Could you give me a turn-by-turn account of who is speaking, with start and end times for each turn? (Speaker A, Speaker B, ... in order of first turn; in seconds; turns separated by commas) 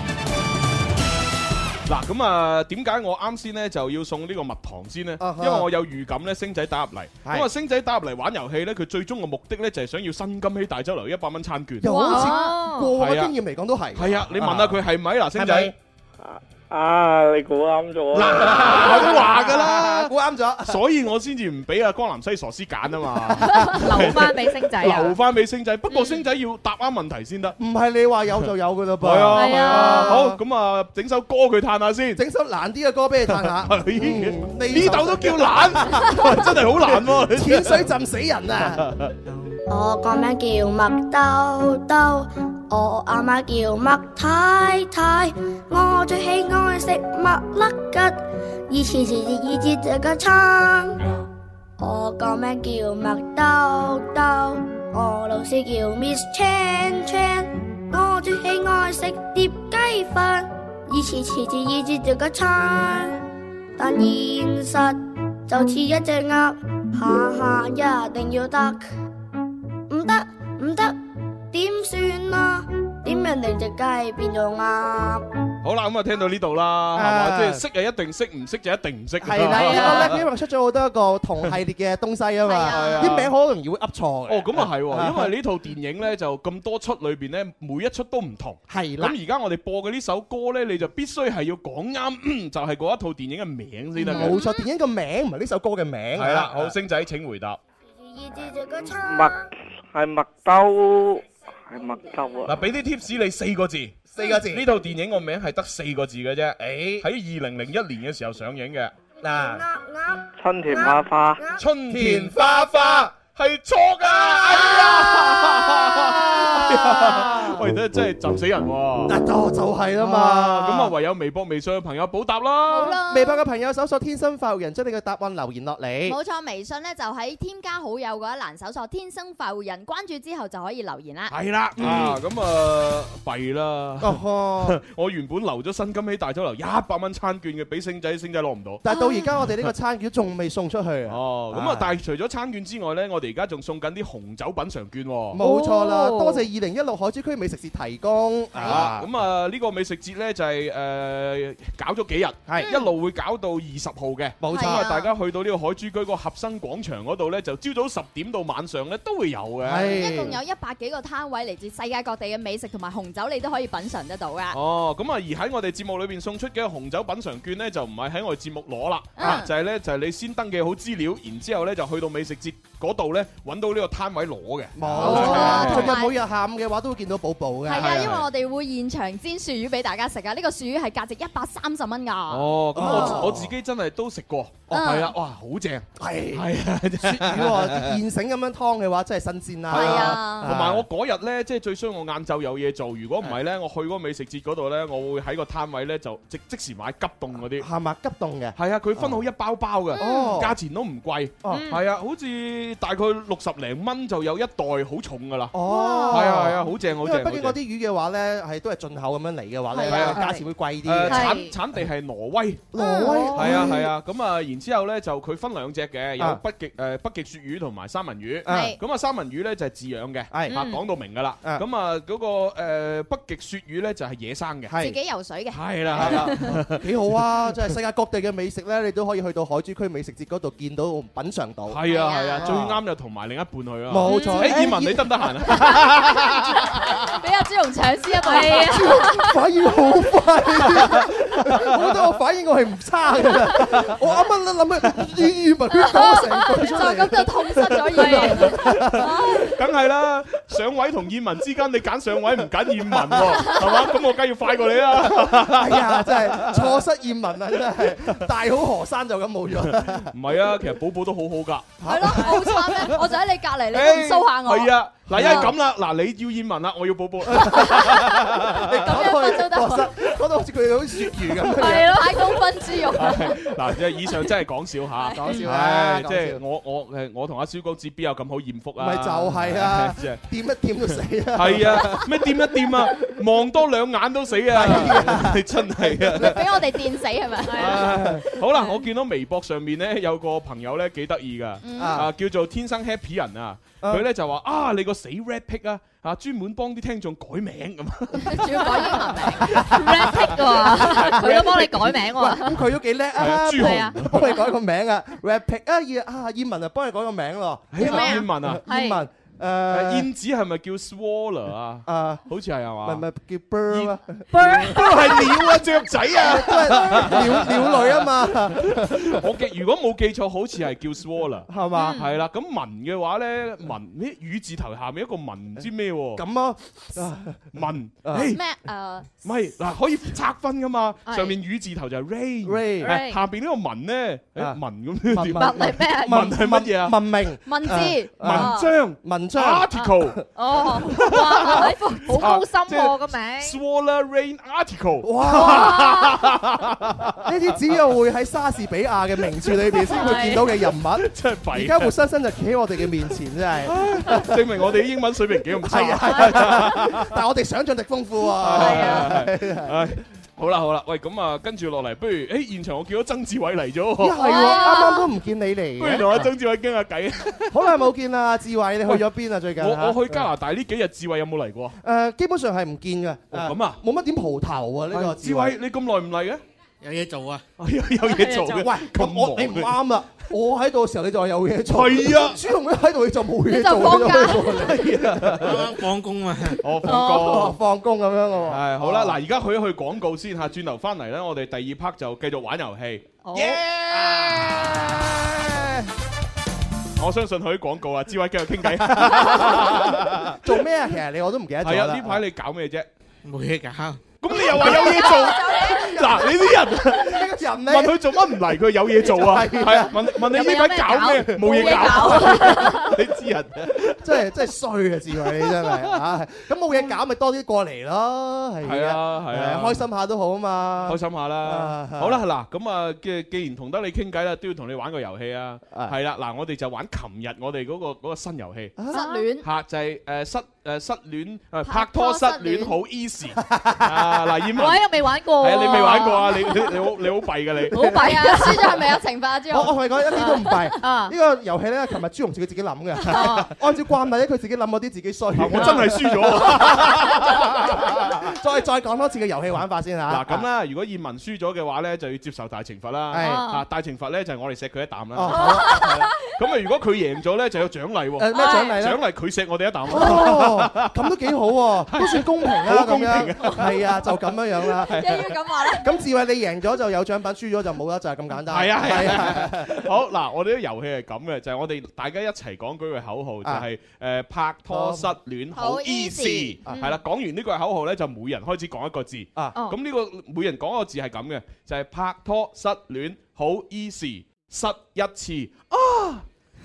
Speaker A: 1.9-11.9, Speaker B: 5.2-5.7, Speaker B: 11.8-14.8, Speaker C: 11.8-12.5, Speaker D: 11.9-12.9, Speaker A: 13.0-13.3, Speaker A: 13.9-15.7, Speaker B: 15.3-15.7, Speaker E: 16.2-19.1, Speaker A: 18.1-20.1, Speaker B: 18.3-20.8, Speaker A: 20.7-27.6, Speaker D: 23.7-25.2, Speaker D: 25.9-26.2, Speaker B: 27.6-30.4, Speaker A: 29.0-32.2, Speaker D: 29.3-30.2, Speaker B: 32.1-38.9, Speaker A: 33.3-37.9, Speaker A: 38.8-39.1, Speaker F: 39.7-51.0, Speaker F: 51.8-63.2, Speaker F: 63.8-68.9, Speaker F: 69.9-71.0, Speaker F: 71.5-75.2, Speaker A: 75.6-80.2, Speaker B: 77.0-77.6, Speaker B: 79.2-85.3, Speaker D: 79.5-80.1, Speaker C: 82.5-83.2, Speaker A: 82.7-83.3, Speaker A: 84.3-94.4, Speaker B: 88.7-89.2, Speaker B: 94.0-96.8, Speaker C: 94.1-94.6, Speaker A: 96.2-97.6, Speaker F: 98.0-99.5, Speaker E: 98.9-99.3, Speaker E: 99.9-102.7, Speaker A: 102.5-108.9, Speaker B: 104.1-104.7, Speaker B: 106.6-107.0, Speaker B: 109.2-109.6, Speaker F: 109.2-111.6, Speaker E: 110.4-111.5, Speaker A: 111.6-119.2, Speaker B: 111.9-113.1, Speaker B: 114.1-117.7, Speaker B: 119.1-120.9, Speaker A: 120.0-123.0, Speaker C: 122.7-123.4, Speaker B: 123.0-126.2, Speaker C: 126.0-131.3, Speaker A: 131.3-138.8, Speaker B: 131.8-132.2, Speaker B: 134.0-134.8, Speaker B: 138.8-141.9, Speaker C: 138.9-139.3, Speaker A: 141.1-145.4, Speaker B: 145.3-149.1, Speaker C: 145.4-146.3, Speaker A: 148.6-160.0, Speaker B: 154.4-154.9, Speaker C: 154.5-155.1, Speaker B: 159.6-160.4, Speaker C: 160.0-164.6, Speaker A: 164.5-175.9, Speaker C: 169.2-169.5, Speaker B: 174.8-178.1, Speaker C: 175.0-176.1, Speaker C: 177.7-183.2, Speaker A: 177.7-178.3, Speaker A: 182.3-188.0, Speaker B: 182.8-183.5, Speaker C: 184.7-185.1, Speaker B: 186.0-186.5, Speaker B: 187.0-190.9, Speaker A: 189.7-197.7, Speaker C: 189.7-190.5, Speaker B: 197.6-199.2, Speaker A: 198.6-205.6, Speaker B: 199.9-200.6, Speaker C: 200.0-200.3, Speaker D: 201.5-201.8, Speaker B: 205.5-211.4, Speaker C: 205.7-206.3, Speaker A: 206.1-207.6, Speaker A: 209.9-210.3, Speaker D: 210.1-210.4, Speaker A: 210.8-212.7, Speaker D: 211.1-211.5, Speaker B: 212.7-213.9, Speaker C: 212.8-213.4, Speaker A: 213.3-224.8, Speaker B: 218.4-218.7, Speaker C: 218.5-218.8, Speaker B: 220.3-220.6, Speaker D: 220.5-220.8, Speaker B: 224.7-225.0, Speaker C: 224.8-226.4, Speaker A: 225.5-226.8, Speaker B: 225.9-231.8, Speaker A: 231.7-236.9, Speaker C: 231.9-232.5, Speaker B: 232.4-232.8, Speaker B: 233.9-235.1, Speaker D: 234.1-234.4, Speaker C: 234.1-234.5, Speaker C: 235.7-239.3, Speaker D: 238.2-239.1, Speaker B: 238.6-249.2, Speaker C: 245.8-249.5, Speaker A: 248.1-256.8, Speaker B: 252.9-253.4, Speaker B: 255.0-260.1, Speaker A: 259.6-263.0, Speaker B: 261.8-262.5, Speaker C: 261.9-265.5, Speaker A: 263.7-268.8, Speaker B: 265.1-265.5, Speaker B: 267.3-272.1, Speaker C: 268.8-269.9, Speaker C: 271.6-273.4, Speaker A: 272.9-280.2, Speaker B: 275.2-276.4, Speaker B: 278.8-282.1, Speaker A: 281.4-286.4, Speaker B: 284.5-286.4, Speaker C: 286.2-287.9, Speaker D: 287.5-287.8, Speaker A: 287.6-298.8, Speaker B: 287.8-288.2, Speaker C: 291.6-292.0, Speaker B: 291.8-292.1, Speaker C: 298.2-299.7, Speaker A: 299.5-301.9, Speaker B: 299.6-310.1, Speaker D: 299.7-302.6, Speaker A: 303.2-304.3, Speaker D: 303.6-303.9, Speaker A: 307.7-308.6, Speaker C: 307.8-308.2, Speaker D: 308.7-309.0, Speaker A: 309.7-313.1, Speaker B: 311.9-312.2, Speaker B: 312.8-315.5, Speaker A: 313.7-326.2, Speaker B: 316.1-319.2, Speaker B: 321.5-322.0, Speaker D: 321.8-322.1, Speaker B: 326.2-327.5, Speaker A: 327.5-328.4, Speaker B: 328.1-328.3, Speaker C: 328.1-329.1, Speaker A: 329.2-337.0, Speaker D: 331.1-331.4, Speaker B: 332.4-333.0, Speaker D: 332.8-333.2, Speaker B: 335.1-340.2, Speaker D: 335.4-336.3, Speaker C: 337.5-338.7, Speaker A: 338.2-340.2, Speaker D: 340.4-343.6, Speaker A: 340.9-347.2, Speaker B: 345.0-345.9, Speaker B: 347.2-354.4, Speaker D: 349.9-350.5, Speaker A: 350.0-350.4, Speaker A: 351.0-351.9, Speaker A: 353.6-357.1, Speaker B: 355.6-359.8, Speaker A: 358.4-364.4, Speaker D: 358.6-358.9, Speaker B: 364.0-366.3, Speaker C: 364.2-365.1, Speaker D: 364.2-364.9, Speaker A: 365.8-367.7, Speaker B: 367.5-370.3, Speaker A: 369.6-371.8, Speaker B: 371.8-375.6, Speaker A: 373.3-373.8, Speaker A: 374.9-376.4, Speaker G: 376.8-377.5, Speaker A: 377.6-379.8, Speaker D: 378.1-378.7, Speaker B: 378.5-385.5, Speaker A: 381.7-382.4, Speaker C: 383.5-384.7, Speaker A: 384.7-385.5, Speaker G: 385.4-386.6, Speaker A: 386.6-387.6, Speaker B: 386.8-389.2, Speaker D: 386.9-387.3, Speaker A: 388.5-395.0, Speaker D: 393.2-393.6, Speaker B: 393.9-395.8, Speaker A: 397.0-400.4, Speaker B: 398.6-402.2, Speaker A: 401.6-402.9, Speaker G: 403.2-404.0, Speaker A: 404.2-414.3, Speaker C: 404.7-405.9, Speaker B: 406.9-408.1, Speaker B: 409.0-410.0, Speaker D: 410.3-413.0, Speaker C: 411.6-412.6, Speaker B: 414.0-422.2, Speaker A: 415.3-415.9, Speaker A: 418.6-419.9, Speaker A: 420.9-428.9, Speaker B: 428.8-429.1, Speaker C: 428.9-429.4, Speaker A: 429.4-437.9, Speaker C: 431.7-432.8, Speaker B: 433.4-434.3, Speaker D: 434.6-436.3, Speaker D: 437.7-438.6, Speaker C: 438.0-440.7, Speaker B: 439.5-447.2, Speaker D: 440.2-441.1, Speaker D: 443.1-443.5, Speaker A: 445.4-448.2, Speaker B: 447.9-450.4, Speaker A: 450.1-461.0, Speaker B: 453.1-453.4, Speaker D: 453.2-453.6, Speaker B: 455.1-455.9, Speaker D: 455.3-455.6, Speaker C: 455.7-455.9, Speaker B: 458.2-459.0, Speaker D: 458.4-458.8, Speaker B: 459.9-469.9, Speaker A: 461.9-464.2, Speaker A: 464.7-465.2, Speaker C: 464.9-465.9, Speaker A: 468.5-486.2, Speaker B: 474.7-475.1, Speaker C: 475.6-476.6